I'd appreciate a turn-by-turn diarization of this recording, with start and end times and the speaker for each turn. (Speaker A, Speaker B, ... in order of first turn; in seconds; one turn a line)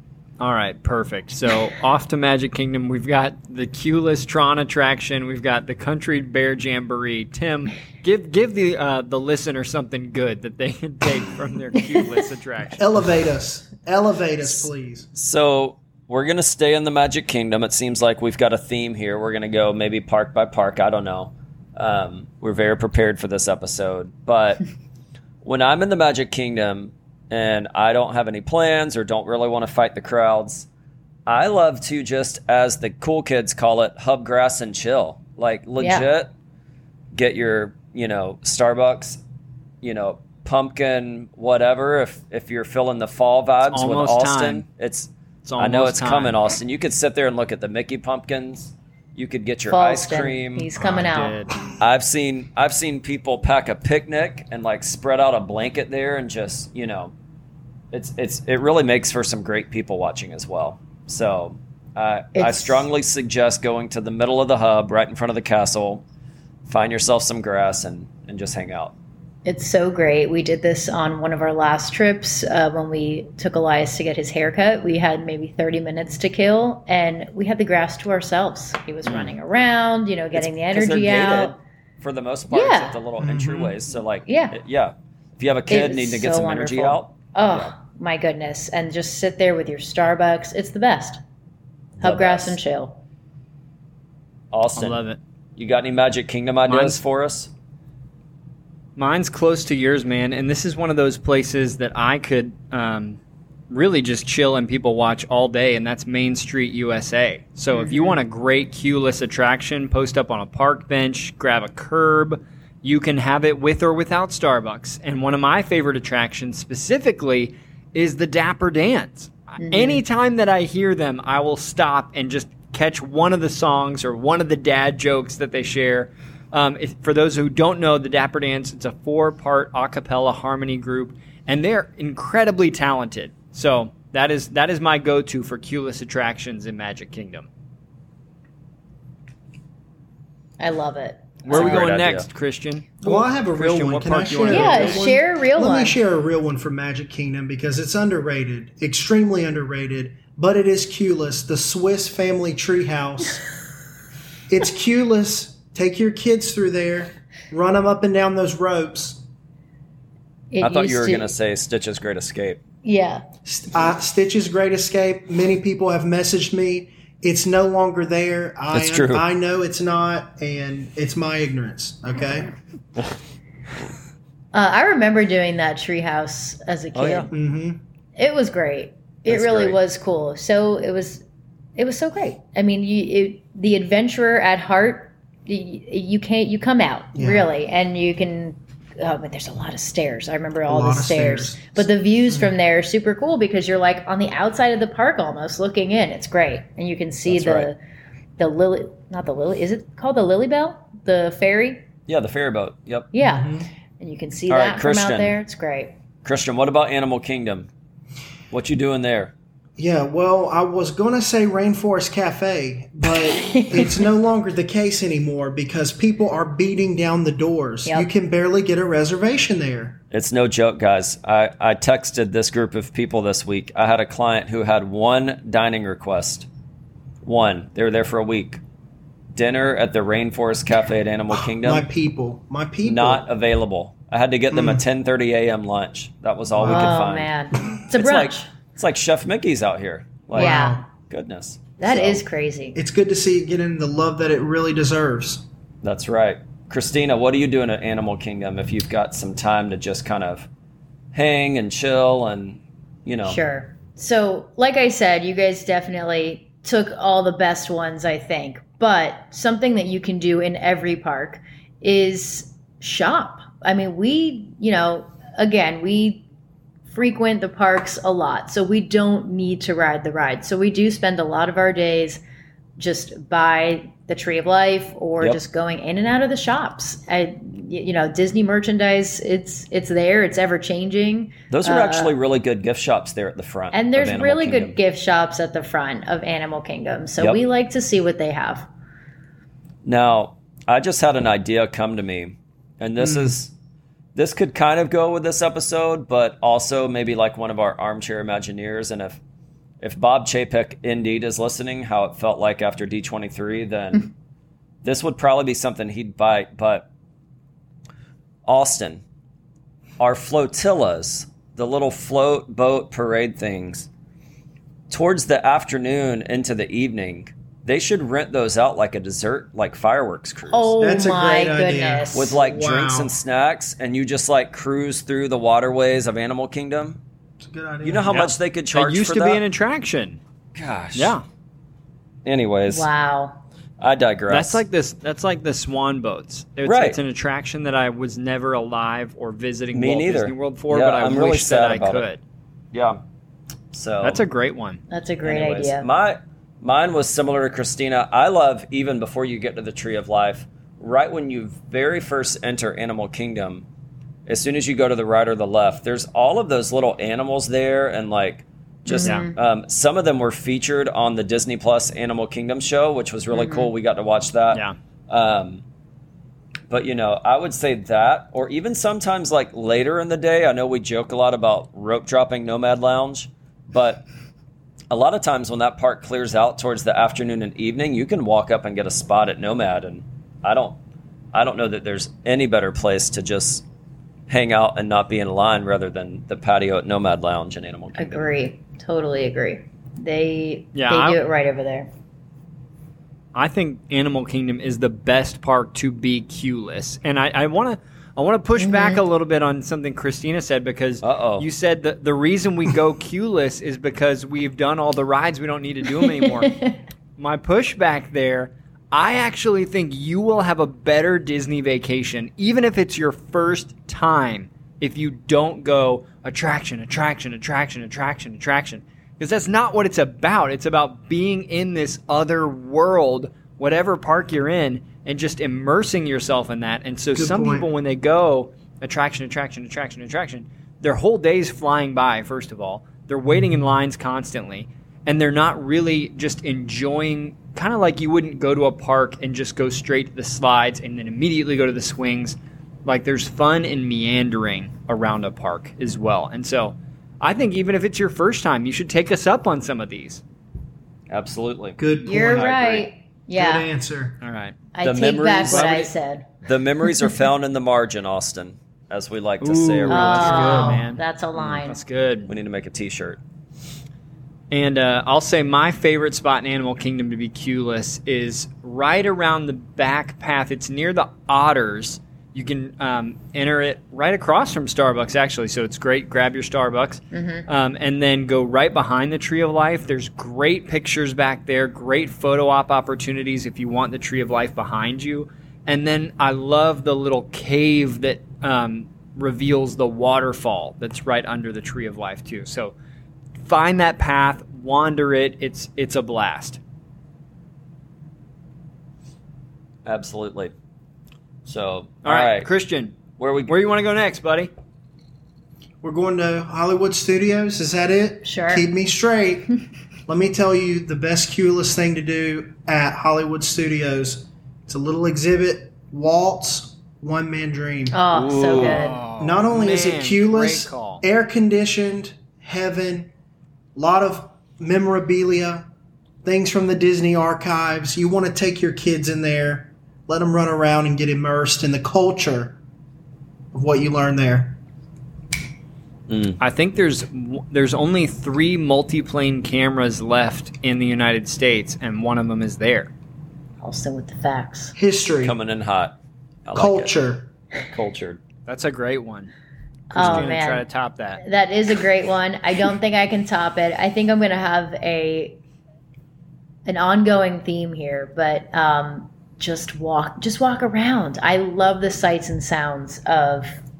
Speaker A: 0.4-12.9
Speaker B: 12.8-15.1
Speaker C: 14.4-24.6
Speaker C: 25.4-30.7
Speaker C: 31.2-36.3
Speaker D: 35.8-36.1
Speaker C: 37.1-39.2
Speaker C: 39.8-50.7
Speaker A: 43.7-44.6
Speaker A: 45.4-46.4
Speaker D: 49.7-51.4
Speaker A: 50.8-51.5
Speaker C: 51.8-57.1
Speaker C: 57.9-66.0
Speaker D: 62.4-62.9
Speaker C: 66.7-68.9
Speaker D: 69.4-81.6
Speaker C: 80.3-87.7
Speaker D: 82.5-83.0
Speaker B: 83.2-83.8
Speaker D: 84.2-84.6
Speaker D: 85.7-91.2
Speaker C: 92.0-92.6
Speaker D: 92.0-93.0
Speaker C: 94.5-95.0
Speaker A: 94.8-95.2
Speaker C: 95.6-97.5
Speaker A: 96.6-97.0
Speaker A: 99.0-103.2
Speaker A: 103.7-137.5
Speaker D: 107.7-108.2
Speaker D: 119.6-120.0
Speaker D: 140.6-141.8
Speaker A: 141.4-145.1
Speaker C: 141.5-142.3
Speaker B: 143.0-153.4
Speaker D: 144.5-146.0
Speaker B: 154.5-159.2
Speaker D: 160.5-161.3
Speaker C: 160.6-162.6
Speaker D: 162.8-163.2
Speaker B: 163.4-172.5
Speaker C: 168.7-169.2
Speaker D: 174.5-177.3
Speaker C: 176.9-177.3
Speaker B: 177.3-177.8
Speaker D: 178.2-181.2
Speaker C: 179.3-179.8
Speaker D: 181.8-197.8
Speaker B: 187.1-187.5
Speaker B: 190.7-192.5
Speaker C: 197.3-197.7
Speaker D: 198.4-201.8
Speaker C: 202.1-203.1
Speaker D: 203.1-205.9
Speaker B: 203.2-203.7
Speaker C: 204.5-205.4
Speaker C: 206.2-207.7
Speaker C: 208.5-209.3
Speaker B: 209.8-220.0
Speaker D: 213.4-214.0
Speaker C: 220.1-226.5
Speaker C: 227.2-228.6
Speaker C: 229.3-231.9
Speaker B: 231.3-233.2
Speaker C: 232.8-237.3
Speaker B: 234.5-234.8
Speaker B: 236.6-237.0
Speaker D: 236.6-238.5
Speaker C: 237.9-242.2
Speaker B: 240.3-240.9
Speaker D: 240.3-240.8
Speaker D: 241.8-242.8
Speaker B: 242.8-245.4
Speaker C: 245.8-250.5
Speaker C: 251.1-253.4
Speaker D: 253.2-266.3
Speaker D: 266.9-272.2
Speaker D: 272.8-282.1
Speaker C: 281.5-284.8
Speaker D: 283.7-288.7
Speaker C: 289.8-293.5
Speaker B: 293.0-293.4
Speaker C: 294.1-299.2
Speaker C: 299.8-304.1
Speaker C: 304.8-306.9
Speaker C: 308.4-309.0
Speaker C: 310.0-313.9
Speaker C: 314.9-320.7
Speaker D: 320.5-322.4
Speaker B: 320.8-323.1
Speaker C: 322.1-327.0
Speaker B: 327.4-328.1
Speaker C: 327.8-329.4
Speaker A: 328.1-330.2
Speaker C: 330.6-331.2
Speaker A: 330.9-331.2
Speaker C: 332.2-332.9
Speaker D: 332.7-333.4
Speaker C: 333.8-334.6
Speaker A: 334.3-342.2
Speaker C: 336.6-337.0
Speaker C: 339.7-342.1
Speaker C: 342.7-343.0
Speaker C: 343.7-344.2
Speaker A: 344.0-344.8
Speaker D: 344.9-345.8
Speaker C: 345.2-353.7
Speaker C: 354.3-365.6
Speaker D: 358.9-359.3
Speaker A: 359.0-359.3
Speaker D: 363.3-363.7
Speaker C: 366.7-374.0
Speaker C: 374.9-380.8
Speaker C: 381.3-383.6
Speaker C: 384.3-388.3
Speaker D: 387.9-391.9
Speaker A: 390.8-391.2
Speaker A: 393.3-406.6
Speaker D: 398.6-399.0
Speaker C: 401.0-401.5
Speaker D: 406.1-406.8
Speaker A: 407.2-450.2
Speaker B: 427.1-427.7
Speaker C: 451.1-452.9
Speaker B: 451.8-452.6
Speaker D: 452.0-453.7
Speaker B: 453.3-454.2
Speaker A: 454.2-454.6
Speaker D: 454.7-456.3
Speaker C: 454.8-455.9
Speaker C: 456.4-460.6
Speaker A: 459.4-461.0
Speaker D: 459.9-461.8
Speaker B: 460.2-461.0
Speaker C: 461.4-461.6
Speaker A: 461.6-462.3
Speaker C: 462.3-463.2
Speaker A: 464.5-492.7
Speaker D: 477.1-477.5
Speaker A: 493.4-496.6
Speaker C: 499.8-500.5
Speaker C: 501.4-502.5
Speaker A: 502.0-504.5
Speaker C: 503.2-503.6
Speaker B: 505.8-518.0
Speaker D: 508.2-508.7
Speaker D: 517.9-519.0
Speaker C: 518.1-518.8
Speaker A: 518.5-521.0
Speaker B: 519.2-523.1
Speaker B: 523.8-525.6
Speaker B: 526.2-532.6
Speaker B: 533.5-534.6
Speaker C: 536.1-536.4
Speaker A: 536.4-542.9
Speaker D: 543.6-544.8
Speaker B: 544.8-545.4
Speaker C: 545.2-546.9
Speaker B: 546.5-547.3
Speaker C: 547.6-548.2
Speaker A: 548.5-549.3
Speaker D: 549.9-550.7
Speaker A: 549.9-551.2
Speaker C: 550.0-550.3
Speaker D: 551.2-555.4
Speaker D: 556.6-563.6